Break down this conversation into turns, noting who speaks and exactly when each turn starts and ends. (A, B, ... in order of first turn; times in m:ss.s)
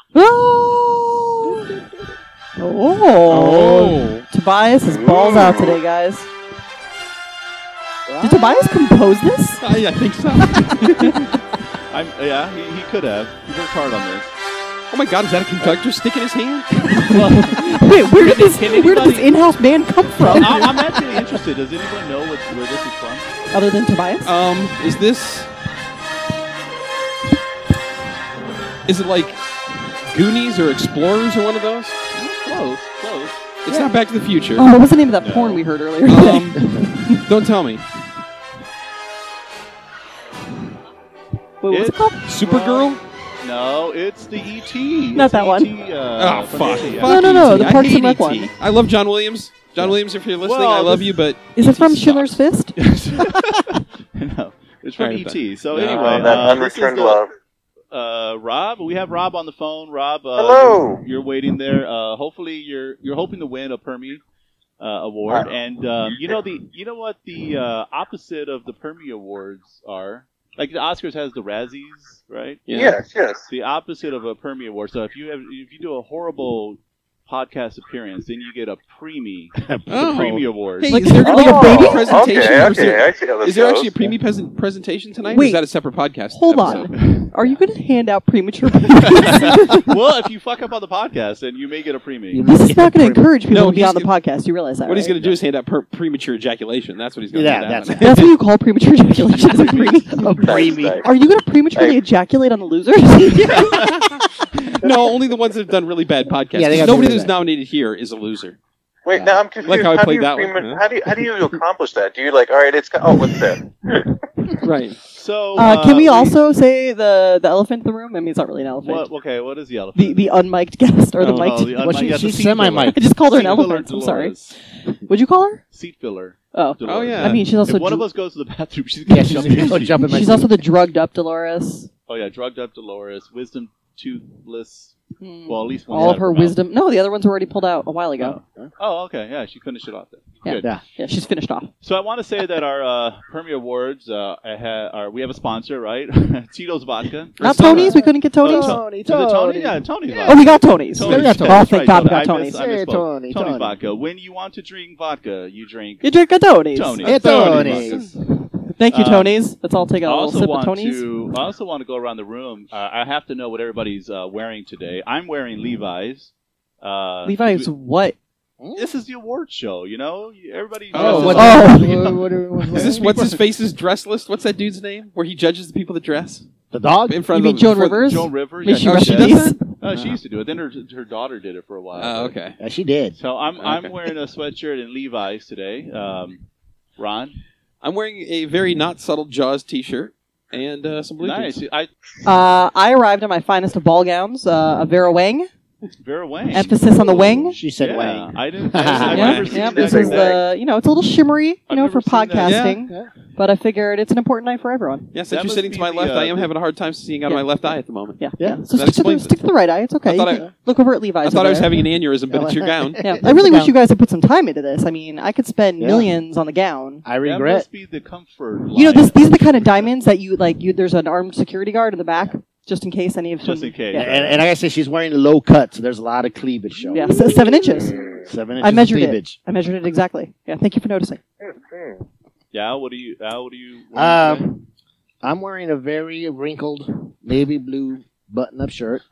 0:00.1-0:01.6 A
0:01.4-0:02.1 B
0:02.6-0:06.3 A
0:03.3-0:04.2 C
0:08.1-0:08.7 B
0:08.2-0:09.6 A
0:09.6-0:11.2 C
0:10.7-0:11.2 A
0:11.9-0:14.3 D
0:14.9-0:16.9 C
0:16.9-0:21.2 A
0:17.1-0:19.3 D
0:18.3-0:19.3 C
0:20.2-0:23.3 D
0:23.5-0:24.3 A
0:24.2-0:25.5 C
0:28.9-0:29.4 C
0:30.1-0:32.0 C
0:32.1-0:33.6 D
0:33.6-0:34.7 C
0:34.6-0:37.2 A
0:35.2-0:35.6 D
0:36.1-0:37.8 C
0:41.6-0:42.2 A
0:41.7-0:47.9 D
0:42.2-0:43.0 C
0:45.1-0:45.7 A
0:46.1-0:52.4 C
0:47.0-0:48.5 A
0:49.8-0:51.2 D
0:51.6-0:52.7 A
0:52.8-0:57.2 D
0:55.0-0:56.6 C
0:55.7-0:57.3 E
0:57.9-1:04.2 D
1:00.4-1:01.0 E
1:04.8-1:12.7 D
1:12.7-1:13.0 C
1:12.7-1:13.5 E
1:13.5-1:21.0 D
1:19.6-1:20.3 B
1:19.9-1:26.9 C
1:20.8-1:22.1 A
1:21.4-1:23.9 E
1:25.3-1:29.7 A
1:26.9-1:27.3 D
1:29.2-1:32.4 D
1:32.3-1:33.3 B
1:32.4-1:35.2 A
1:33.5-1:34.1 C
1:34.8-1:38.3 C
1:37.3-1:38.2 B
1:38.0-1:40.4 A
1:39.3-1:40.0 D
1:40.2-1:41.0 B
1:40.4-1:41.0 E
1:41.0-1:43.9 A
1:41.7-1:42.0 E
1:44.8-1:48.6 C
1:46.5-1:47.3 B
1:46.8-1:47.1 A
1:49.0-1:53.7 E
1:49.6-1:50.8 C
1:54.6-1:55.0 C
1:55.1-1:56.4 D
1:55.6-1:59.1 A
1:58.8-2:00.3 D
1:59.9-2:01.8 A
2:01.2-2:04.5 D
2:01.8-2:03.0 B
2:02.9-2:04.5 A
2:05.1-2:05.6 A
2:05.7-2:10.0 D
2:06.5-2:08.1 A
2:06.8-2:07.4 C
2:09.1-2:10.5 B
2:10.0-2:11.9 A
2:12.1-2:14.9 D
2:15.2-2:18.4 A
2:15.5-2:16.6 D
2:18.2-2:20.7 D
2:20.4-2:21.7 A
2:20.5-2:20.8 B
2:21.8-2:36.1 D
2:27.4-2:28.0 C
2:27.4-2:28.8 A
2:27.7-2:30.4 B
2:30.2-2:32.6 A
2:31.0-2:31.6 B
2:32.5-2:33.8 B
2:36.0-2:38.0 A
2:36.7-2:38.1 D
2:37.0-2:38.0 B
2:37.6-2:38.1 C
2:38.6-2:41.1 A
2:38.9-2:39.4 D
2:40.0-2:47.7 D
2:47.2-2:48.2 A
2:48.6-2:48.9 B
2:48.7-2:53.4 D
2:50.9-2:51.6 C
2:50.9-2:53.0 B
2:51.3-2:52.0 A
2:52.7-2:56.4 C
2:56.7-2:57.2 B
2:57.1-2:57.9 C
2:57.3-2:59.6 A
2:57.7-3:02.4 D
2:58.7-3:00.1 C
3:02.0-3:02.6 C
3:02.6-3:03.2 B
3:03.2-3:06.4 D
3:03.6-3:04.1 C
3:07.0-3:07.4 D
3:07.8-3:11.6 C
3:11.2-3:11.9 D
3:12.2-3:15.5 A
3:16.0-3:20.4 D
3:16.5-3:17.6 A
3:17.1-3:19.3 B
3:19.0-3:20.4 E
3:19.1-3:25.1 A
3:19.1-3:19.5 C
3:21.7-3:22.6 D
3:22.4-3:22.8 C
3:25.1-3:29.3 C
3:25.3-3:26.5 D
3:28.2-3:31.7 A
3:30.0-3:30.4 C
3:31.2-3:33.0 C
3:32.3-3:33.7 B
3:33.0-3:37.0 A
3:35.8-3:36.1 B
3:37.0-3:37.7 B
3:37.2-3:39.9 D
3:38.7-3:44.1 A
3:43.4-3:44.4 D
3:43.9-3:49.4 B
3:46.9-3:48.0 A
3:48.6-3:51.2 A
3:51.5-3:51.9 E
3:52.5-3:54.5 D
3:53.9-3:54.6 B
3:55.2-3:59.0 B